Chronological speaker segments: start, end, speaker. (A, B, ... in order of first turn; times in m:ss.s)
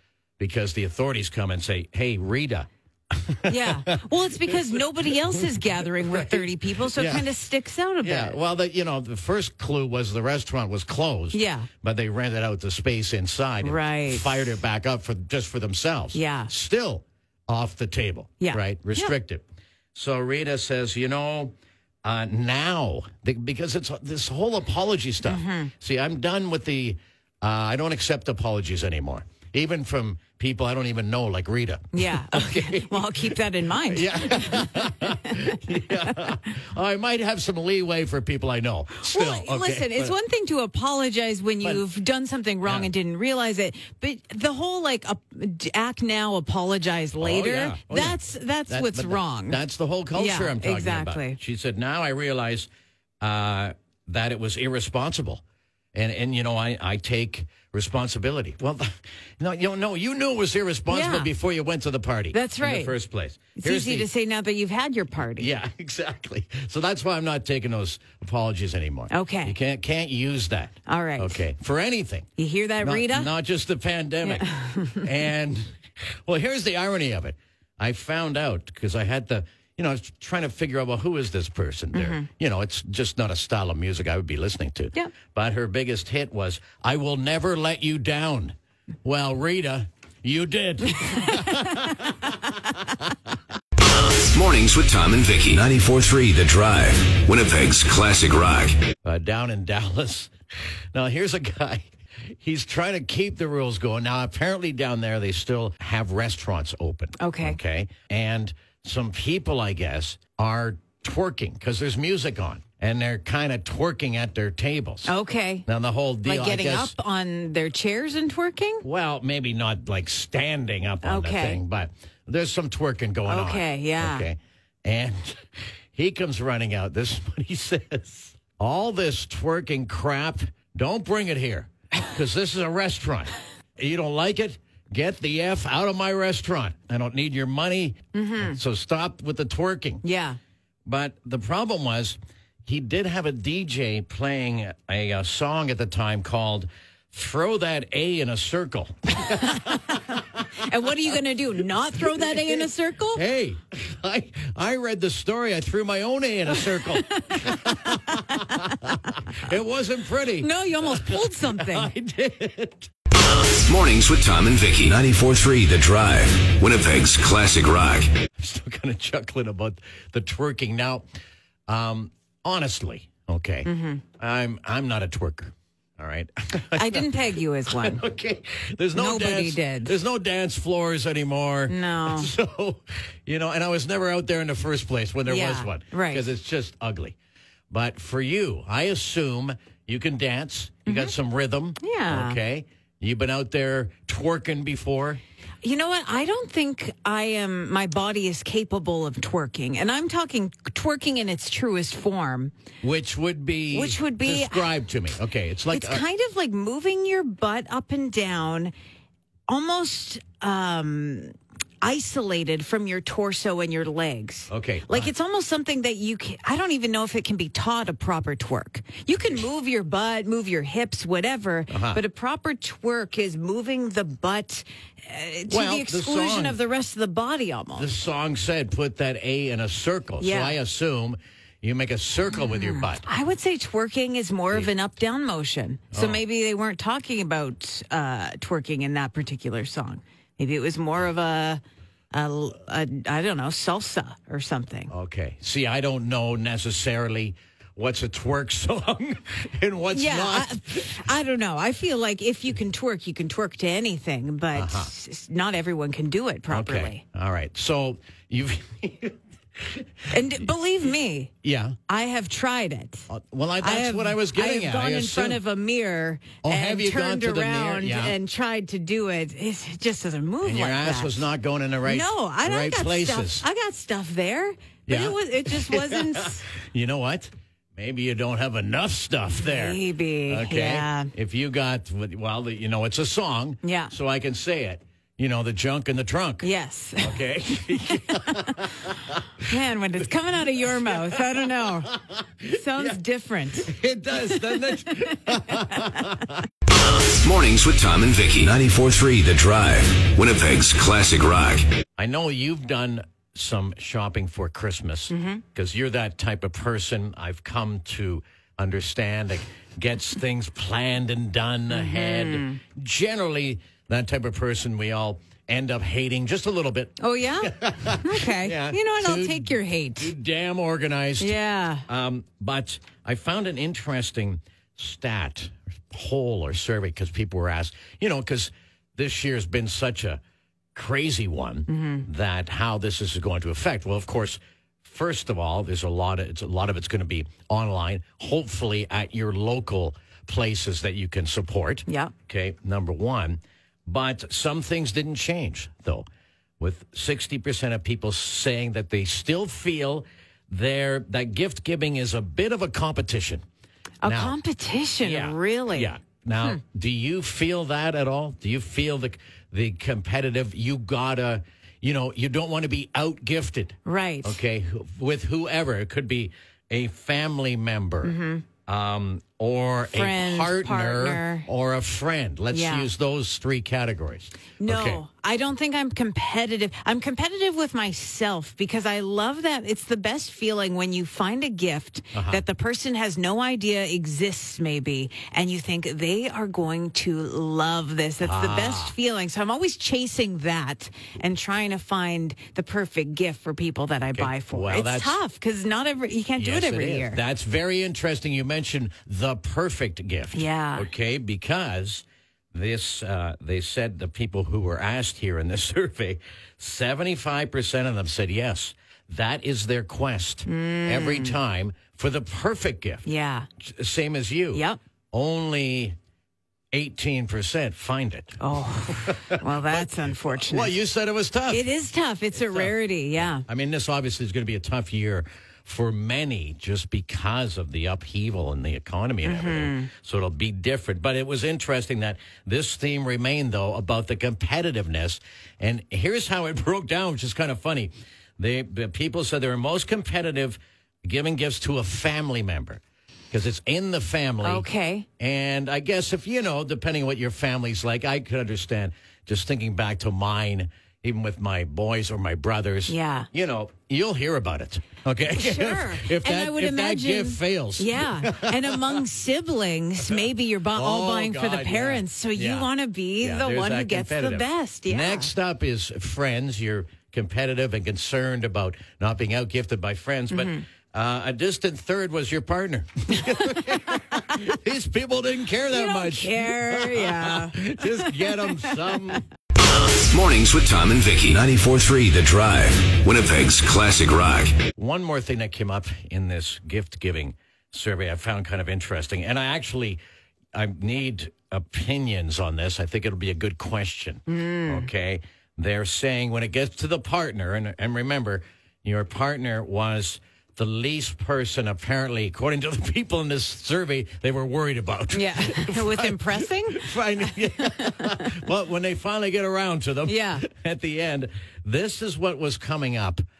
0:00.4-0:07.3 A
0:03.5-0:08.4 B
0:08.0-0:33.3 A
0:11.3-0:11.7 B
0:13.6-0:14.6 B
0:16.1-0:16.5 B
0:18.4-0:19.1 B
0:25.2-0:25.7 B
0:31.9-0:35.6 B
0:33.9-0:40.2 A
0:39.0-0:49.6 B
0:42.6-0:42.9 A
0:47.2-0:52.7 A
0:50.1-0:51.4 B
0:53.2-0:55.4 A
0:55.9-1:04.1 A
1:00.9-1:01.3 B
1:02.3-1:03.0 B
1:03.6-1:05.5 B
1:05.4-1:12.3 A
1:09.1-1:09.6 B
1:10.9-1:11.4 B
1:12.4-1:13.3 B
1:12.8-1:15.7 A
1:14.3-1:15.1 B
1:16.3-1:33.1 A
1:21.9-1:22.3 B
1:34.2-1:38.8 C
1:39.0-1:40.3 A
1:40.9-1:41.9 A
1:42.4-1:55.1 A
1:47.2-1:47.6 B
1:55.0-1:55.6 B
1:55.7-1:57.0 A
1:56.2-1:58.8 B
1:58.8-2:20.0 A
2:01.0-2:01.6 B
2:03.2-2:04.3 B
2:18.1-2:18.6 B
2:20.0-2:20.4 B
2:20.9-2:29.9 A
2:29.3-2:33.2 B
2:32.0-2:42.9 A
2:36.5-2:39.0 B
2:40.4-2:41.9 B
2:43.5-2:48.1 C
2:48.1-2:51.1 A
2:51.7-3:07.2 A
2:53.6-2:54.0 B
2:56.8-2:58.0 B
2:58.9-3:00.0 B
3:01.7-3:02.3 B
3:05.3-3:06.3 B
3:07.7-3:15.2 A
3:10.9-3:11.2 B
3:11.8-3:12.4 B
3:15.6-3:22.5 B
3:22.8-3:26.0 A
3:23.7-3:24.7 B
3:25.7-3:28.7 B
3:29.5-3:47.9 B
3:34.5-3:35.1 A
3:41.7-3:42.0 A
3:45.5-3:46.6 A
3:47.8-3:53.1 A
3:50.2-3:50.6 B
3:52.4-4:01.6 B
3:55.9-3:56.2 A
4:02.1-4:04.9 B
4:04.9-4:11.0 A
4:09.9-4:17.0 B
4:14.5-4:14.9 A
4:16.5-4:20.5 A
4:20.1-4:21.3 B
4:21.4-4:21.8 A
4:21.9-4:23.1 B
4:23.1-4:25.4 A
4:23.6-4:31.2 B
4:26.4-4:28.2 A
4:30.4-4:33.5 A
4:31.8-4:36.4 B
4:34.9-4:46.5 A
4:39.4-4:41.1 B
4:43.6-4:43.9 B
4:46.4-4:48.7 B
4:47.0-4:49.2 A
4:49.4-4:54.6 B
4:50.7-4:53.0 A
4:53.5-4:56.4 A
4:55.5-4:56.2 B
4:56.8-5:01.7 C
5:02.0-5:30.2 A
5:05.1-5:05.4 B
5:11.7-5:12.6 B
5:17.0-5:20.1 B
5:21.2-5:21.9 B
5:30.8-5:46.1 A
5:31.7-5:32.1 B
5:41.9-5:42.1 B
5:46.6-5:53.4 A
5:54.0-5:55.9 B
5:54.0-5:54.4 A
5:55.0-6:15.0 A
6:03.8-6:04.4 B
6:08.0-6:08.4 B
6:09.9-6:11.5 B
6:12.5-6:12.9 B
6:14.6-6:37.2 B
6:22.1-6:22.4 A
6:28.2-6:29.0 A
6:34.1-6:35.2 A
6:36.4-6:53.1 A
6:40.3-6:40.9 B
6:50.4-6:51.4 B
6:53.0-6:53.5 B
6:53.6-6:56.0 A
6:54.5-6:54.8 B
6:56.7-7:01.7 A
6:58.4-7:00.8 B
7:01.5-7:03.4 B
7:02.3-7:24.7 A
7:09.2-7:09.9 B
7:24.4-7:25.1 B
7:25.2-7:39.0 A
7:32.9-7:33.3 B
7:35.3-7:45.3 B
7:40.0-7:42.7 A
7:43.2-7:59.2 A
7:50.3-7:50.6 B
7:53.3-7:54.4 B
7:55.7-7:59.2 B
8:00.0-8:04.6 C
8:04.6-8:10.0 A
8:10.5-8:33.2 A
8:14.3-8:14.9 B
8:25.1-8:27.0 B
8:27.8-8:28.3 B
8:30.1-8:30.4 B